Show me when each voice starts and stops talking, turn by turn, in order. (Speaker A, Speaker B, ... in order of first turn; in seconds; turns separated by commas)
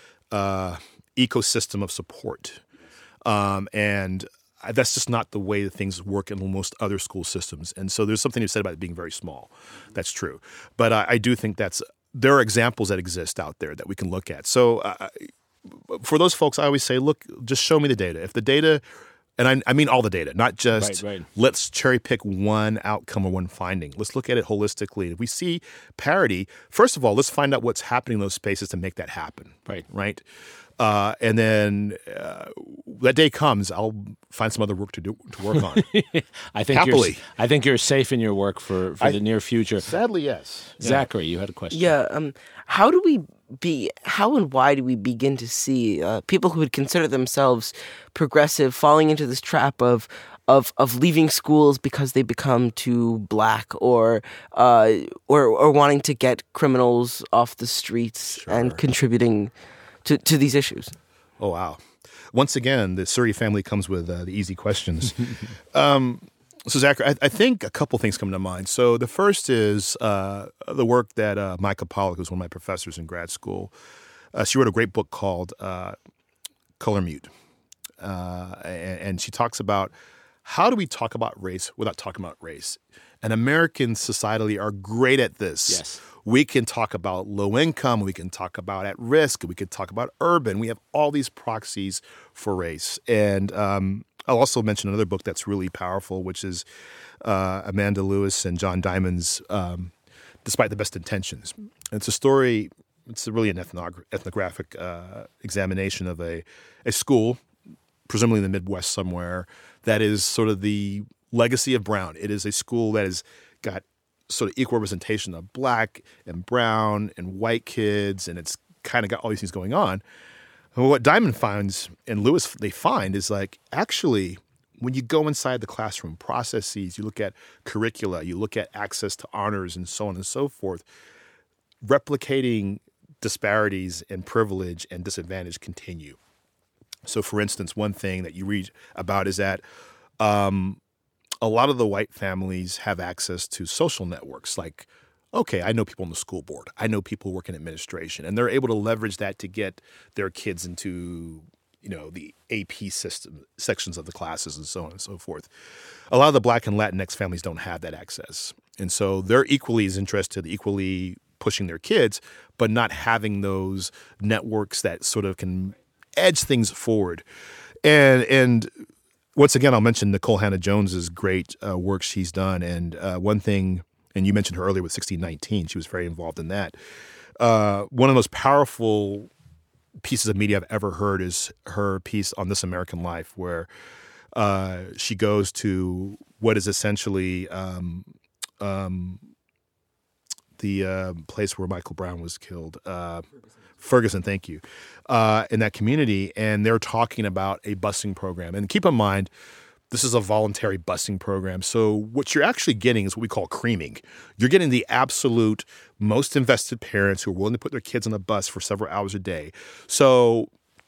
Speaker A: 0.3-2.6, Speaker A: 3.2-18.8, Speaker A: 19.4-30.2, Speaker B: 20.8-21.3, Speaker A: 30.8-35.9, Speaker B: 35.5-39.9, Speaker A: 36.7-37.2, Speaker A: 39.8-41.1, Speaker B: 40.8-41.9, Speaker C: 41.7-59.5, Speaker A: 58.4-58.8, Speaker C: 60.0-60.9, Speaker A: 61.4-73.7, Speaker A: 74.3-76.0, Speaker A: 76.8-77.3, Speaker A: 78.0-79.9, Speaker A: 80.4-96.7, Speaker B: 85.7-86.0, Speaker A: 97.2-99.9, Speaker A: 100.4-107.4, Speaker A: 108.1-120.0, Speaker A: 120.7-130.8, Speaker A: 131.8-136.2, Speaker A: 137.0-139.6, Speaker A: 140.2-140.8, Speaker A: 141.4-155.5, Speaker A: 156.1-167.2, Speaker A: 167.8-168.7, Speaker A: 169.3-176.8, Speaker A: 177.4-179.3, Speaker A: 180.0-183.7, Speaker A: 184.3-189.2, Speaker A: 190.6-193.3, Speaker A: 193.8-199.3, Speaker A: 199.9-210.5